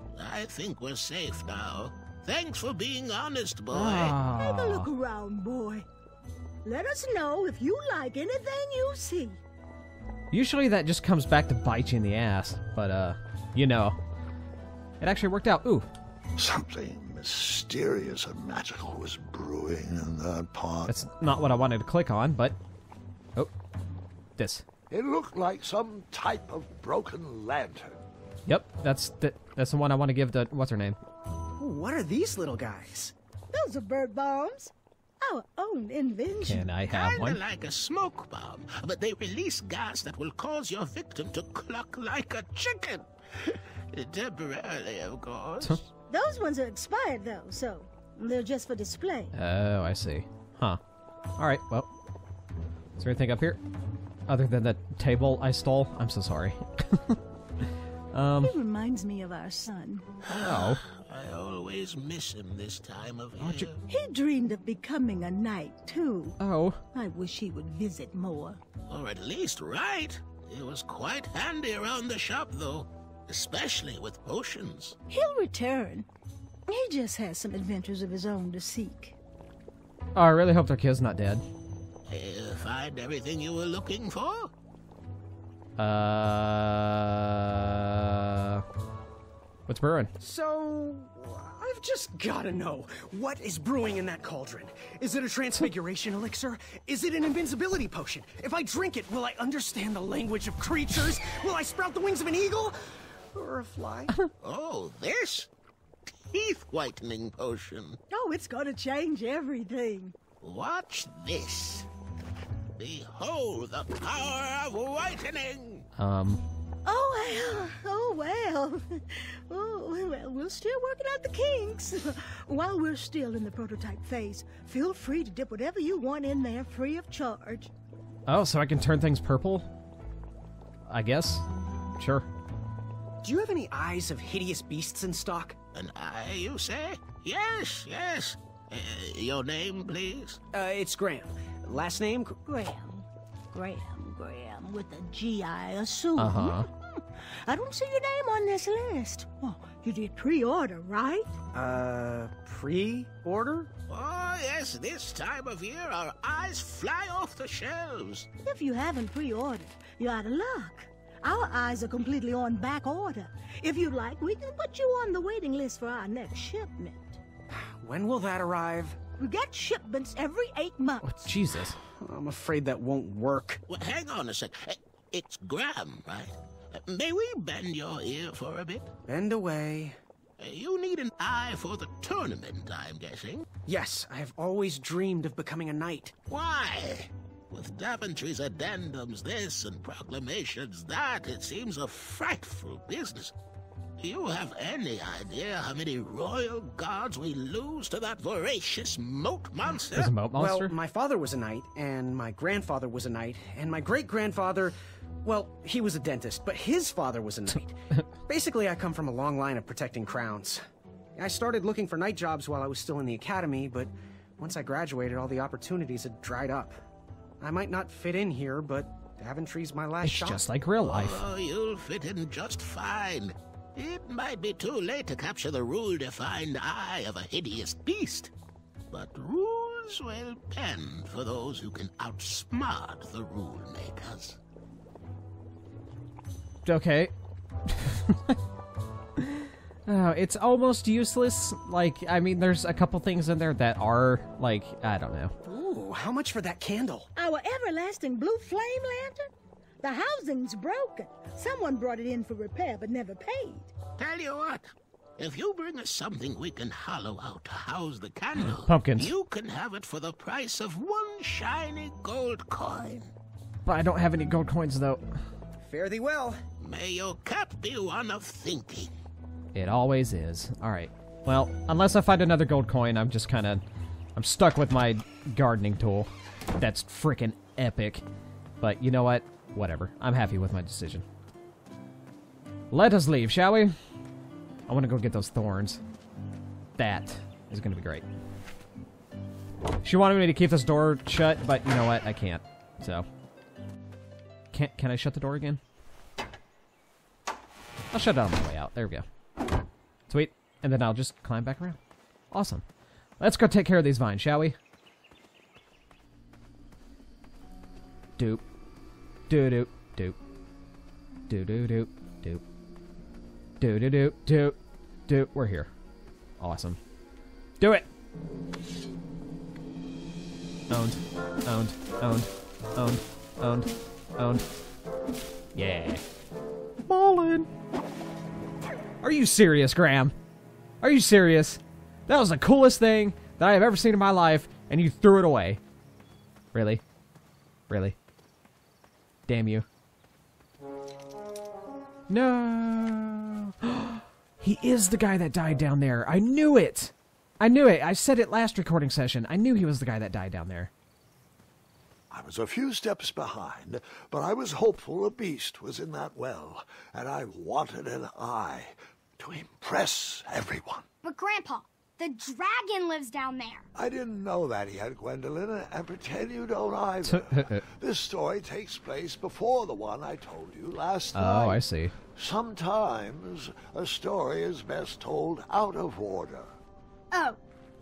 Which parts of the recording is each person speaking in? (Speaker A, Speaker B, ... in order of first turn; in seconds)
Speaker A: 0.1-4.2, 36.9-45.8, 60.2-63.8, 68.9-75.0, 82.1-84.5, 104.4-105.5, 106.3-108.0, 110.4-111.9, 112.7-115.8, 135.7-140.4, 153.9-158.3, 173.7-178.9, 180.4-183.4, 186.3-193.3, 194.0-200.1, 220.8-228.3, 228.9-234.4, 254.0-263.1, 266.6-268.9
Speaker B: 3.7-4.9, 10.3-14.0, 15.0-15.9, 20.9-22.6, 24.4-24.6, 28.4-31.0, 36.4-37.4, 49.3-50.8, 51.4-51.9, 53.0-53.6, 54.3-57.2, 58.1-58.5, 60.4-60.8, 63.4-63.7, 66.4-66.8, 80.1-81.4, 85.8-88.6, 89.7-90.1, 116.0-116.4, 128.3-129.7, 130.9-131.4, 132.0-132.2, 146.2-146.7, 171.0-171.8, 199.9-200.7, 220.0-221.2, 236.6-237.1, 237.7-238.3, 239.2-245.3, 258.6-259.1, 263.6-265.0, 269.5-273.6, 274.1-278.0, 278.6-281.0, 282.7-283.7, 284.7-285.8, 286.8-288.0, 289.8-293.1, 294.5-295.6, 297.9-299.1, 300.1-301.8, 302.3-302.6, 303.2-304.6, 308.2-308.4, 309.3-310.2, 311.3-312.4, 313.6-315.7, 316.4-316.8, 317.6-317.9, 320.7-324.4, 325.5-326.0, 326.8-327.5, 329.0-330.1, 330.8-335.6, 336.5-336.8, 337.7-337.9, 339.3-339.6, 342.1-350.7, 367.0-367.6, 371.1-371.9
Speaker C: 4.2-5.8, 6.6-9.4, 33.5-36.7, 46.1-49.3, 58.4-60.0, 63.9-66.4, 66.9-68.6, 75.1-76.1, 76.7-79.2, 108.1-110.1, 116.8-127.7, 142.5-151.4, 158.4-167.2, 169.2-171.3, 247.2-249.3, 249.8-253.7
Speaker D: 16.4-20.9, 24.9-28.0, 352.1-360.8, 363.7-371.6, 372.1-376.5
Speaker E: 31.6-33.1, 90.2-104.1, 133.2-135.5, 140.5-142.4, 151.5-153.7, 167.5-169.0, 172.0-173.6, 179.1-179.9, 183.7-186.1, 200.3-210.6, 211.2-216.8, 217.4-220.4, 245.4-247.1, 265.6-266.4
Speaker F: 361.0-363.6, 377.1-377.4